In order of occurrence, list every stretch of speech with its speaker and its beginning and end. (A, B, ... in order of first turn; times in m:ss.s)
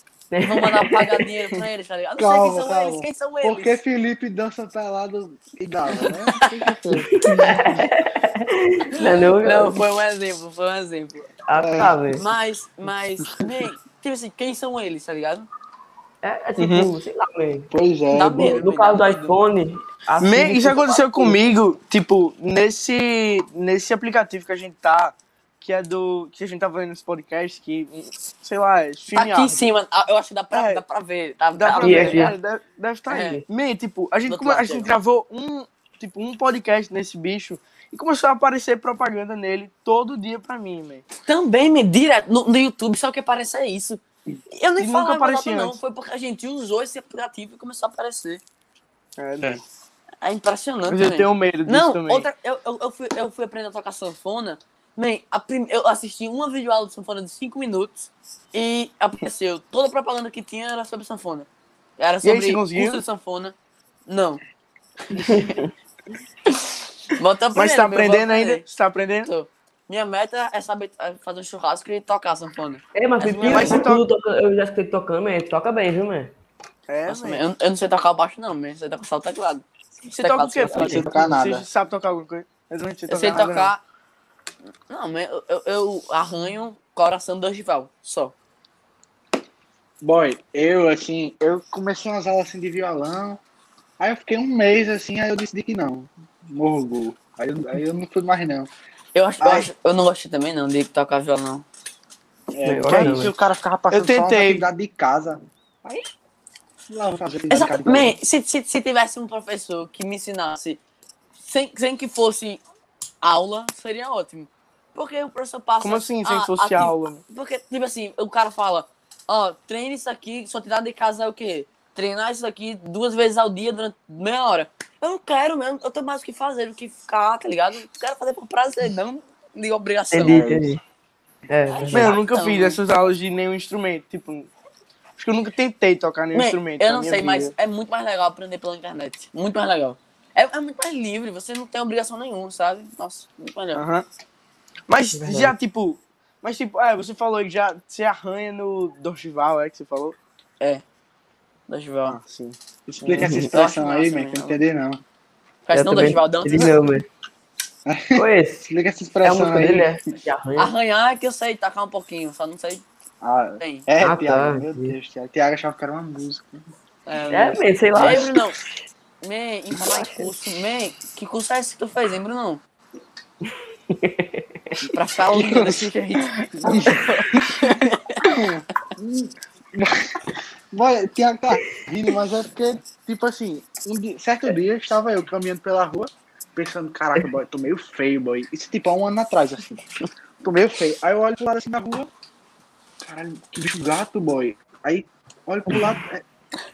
0:00.3-0:01.3 A
0:00.4-0:03.8 B
0:02.2-0:07.9 C
0:06.1-0:06.6 B
0:06.9-0:09.8 A
0:09.0-0:11.3 B
0:11.5-0:12.3 A
0:11.6-0:12.0 C
0:12.1-0:15.5 B
0:16.2-0:17.7 A
0:16.6-0:16.9 D
0:17.7-0:18.6 C
0:18.1-0:19.4 B
0:18.3-0:21.4 A
0:20.2-0:29.7 D
0:29.1-0:32.4 B
0:30.5-0:30.8 D
0:31.6-0:41.0 D
0:31.7-0:32.4 A
0:33.1-0:33.4 B
0:34.3-0:34.9 B
0:41.2-0:48.4 B
0:44.8-0:45.8 D
0:49.2-0:49.6 D
0:50.2-1:03.6 B
0:50.9-0:52.3 D
1:02.2-1:03.0 D
1:04.1-1:04.4 B
1:05.1-1:05.6 B
1:05.2-1:05.6 A
1:07.1-1:08.6 B
1:07.6-1:09.3 D
1:09.2-1:13.8 B
1:13.0-1:16.3 A
1:13.4-1:14.1 D
1:16.9-1:17.4 D
1:17.1-1:21.0 B
1:20.1-1:23.7 D
1:20.7-1:21.7 C
1:23.1-1:23.8 B
1:24.9-1:28.3 B
1:30.0-1:33.4 C
1:34.0-1:38.7 C
1:39.2-1:41.7 B
1:39.4-1:39.7 C
1:42.5-1:46.0 C
1:42.6-1:43.3 A
1:43.9-1:44.6 D
1:46.9-1:48.2 C
1:47.5-1:50.8 B
1:51.4-1:52.6 B
1:53.2-2:10.4 B
1:55.8-1:57.2 D
2:10.1-2:10.8 A
2:10.2-2:10.8 C
2:11.5-2:12.2 A
2:11.7-2:12.8 B
2:11.9-2:14.5 D
2:15.2-2:17.5 D
2:16.3-2:23.8 B
2:23.8-2:24.0 D
2:24.9-2:30.2 D
2:25.1-2:25.5 A
2:31.7-2:32.2 B
2:32.1-2:33.3 D
2:32.9-2:35.0 C
2:33.2-2:33.5 A
2:33.3-2:34.6 B
2:35.7-2:36.8 B
2:35.7-2:37.1 A
2:37.9-2:40.0 C
2:38.2-2:38.7 A
2:39.2-2:40.7 A
2:40.6-2:42.8 B
2:43.2-2:46.6 C
2:43.6-2:43.9 B
2:44.0-2:45.0 A
2:47.1-2:48.6 B
2:47.3-2:48.7 A
2:48.0-2:48.2 C
2:49.2-2:52.6 B
2:49.8-2:50.3 A
2:53.9-2:54.7 A
2:54.9-2:58.3 B
2:55.3-2:55.9 C
2:56.5-2:57.6 C
2:58.2-3:00.1 C
3:00.7-3:09.8 C
3:10.4-3:12.1 C
3:13.0-3:16.2 C